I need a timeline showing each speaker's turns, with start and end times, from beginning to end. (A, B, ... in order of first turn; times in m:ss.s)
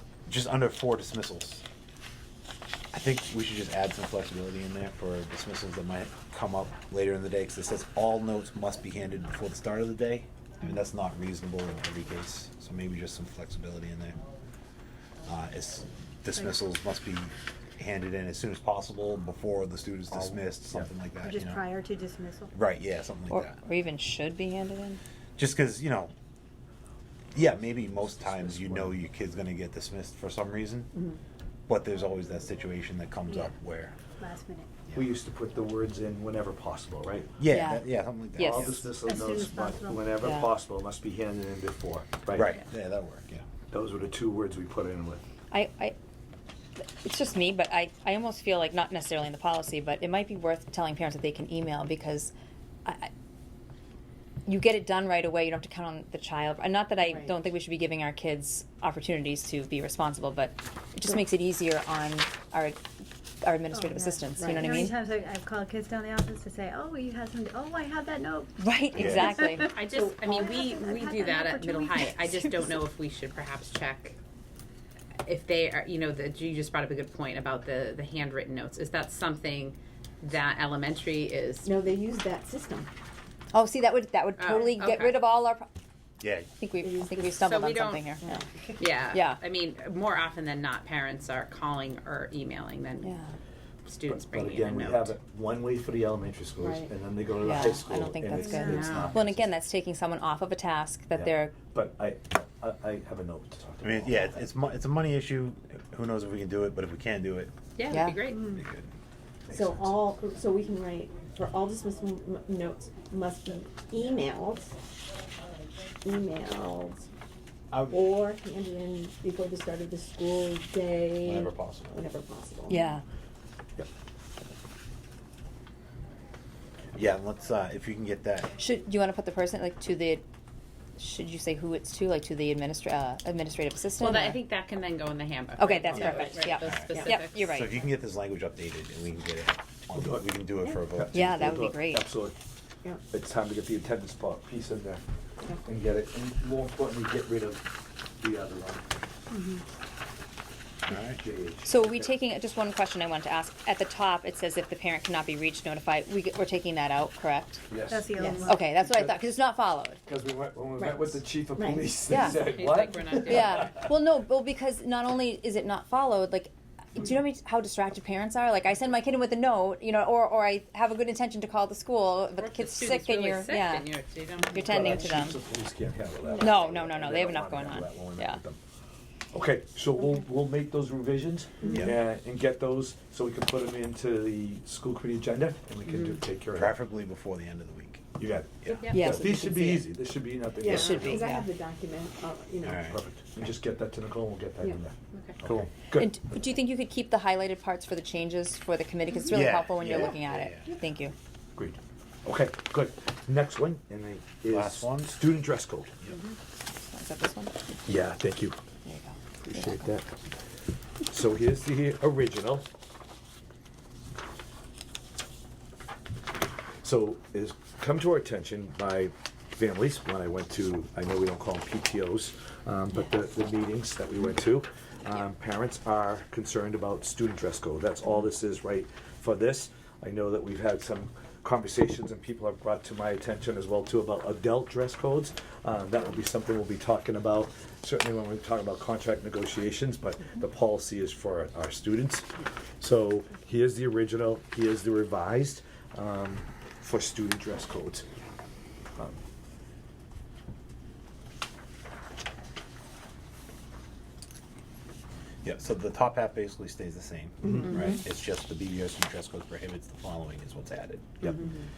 0:00.3-0:01.6 A
0:02.9-0:14.2 A
0:15.2-0:21.6 A
0:20.1-0:20.9 B
0:21.2-0:22.5 C
0:22.5-0:23.6 A
0:23.3-0:25.0 D
0:25.4-0:26.1 A
0:27.3-0:30.9 A
0:28.0-0:29.0 B
0:31.7-0:34.0 A
0:34.2-0:34.8 C
0:35.0-0:37.4 B
0:37.4-0:38.9 A
0:37.4-0:38.8 D
0:38.4-0:42.6 B
0:39.0-0:40.2 C
0:40.2-0:40.5 D
0:42.3-0:43.4 A
0:43.7-0:45.2 B
0:45.5-0:45.9 D
0:46.8-0:52.3 D
0:52.8-0:53.1 D
0:54.4-1:02.8 D
1:03.4-1:05.0 D
1:03.7-1:12.7 C
1:04.4-1:04.9 E
1:08.6-1:09.7 D
1:08.9-1:09.4 A
1:09.6-1:14.2 F
1:09.9-1:10.6 E
1:15.2-1:21.8 F
1:21.6-1:22.9 E
1:23.5-1:25.7 D
1:24.4-1:25.2 F
1:26.2-1:26.5 A
1:26.6-1:28.2 D
1:26.8-1:27.4 E
1:27.4-1:28.2 F
1:28.8-1:33.1 F
1:29.1-1:29.4 D
1:33.0-1:33.3 D
1:33.8-1:35.1 F
1:34.0-1:39.5 B
1:36.6-1:36.9 E
1:37.4-1:41.5 D
1:38.3-1:39.2 F
1:41.1-1:44.5 B
1:43.8-1:47.5 A
1:47.8-1:48.5 F
1:47.9-1:48.2 D
1:48.3-1:48.6 C
1:48.4-1:48.9 A
1:49.5-1:50.0 B
1:49.5-1:54.7 E
1:56.0-1:57.1 E
1:57.7-1:58.1 A
1:57.9-2:02.9 E
2:01.2-2:02.0 A
2:02.7-2:03.0 D
2:06.9-2:08.5 A
2:08.6-2:10.2 D
2:11.0-2:14.4 D
2:14.0-2:17.6 F
2:15.6-2:17.7 D
2:15.9-2:21.6 A
2:19.9-2:22.3 B
2:21.1-2:22.1 D
2:23.1-2:27.6 B
2:28.2-2:29.0 B
2:29.3-2:29.6 C
2:30.9-2:31.2 A
2:31.1-2:32.1 B
2:31.6-2:37.6 D
2:37.7-2:39.4 B
2:37.9-2:38.7 C
2:38.2-2:38.5 E
2:38.3-2:40.0 D
2:40.0-2:43.9 B
2:40.8-2:42.2 E
2:42.1-2:42.4 D
2:42.2-2:43.7 F
2:43.1-2:53.9 D
2:52.4-2:55.0 F
2:54.5-2:55.4 D
2:54.6-2:58.6 B
2:56.2-2:56.7 E
2:56.4-2:58.4 D
2:59.3-3:06.8 B
3:06.6-3:08.9 A
3:08.2-3:11.3 B
3:08.7-3:09.1 F
3:08.9-3:09.9 D
3:10.6-3:12.9 E
3:10.6-3:11.5 D
3:12.6-3:13.0 A
3:12.8-3:16.2 B
3:15.4-3:15.7 A
3:15.9-3:21.1 D
3:19.3-3:20.7 A
3:21.6-3:25.9 B
3:24.5-3:25.2 A
3:26.1-3:26.4 F
3:26.7-3:27.6 D
3:27.8-3:28.6 B
3:28.8-3:29.9 D
3:29.4-3:30.1 B
3:31.0-3:32.7 B
3:36.8-4:08.0 B
4:15.4-4:21.3 A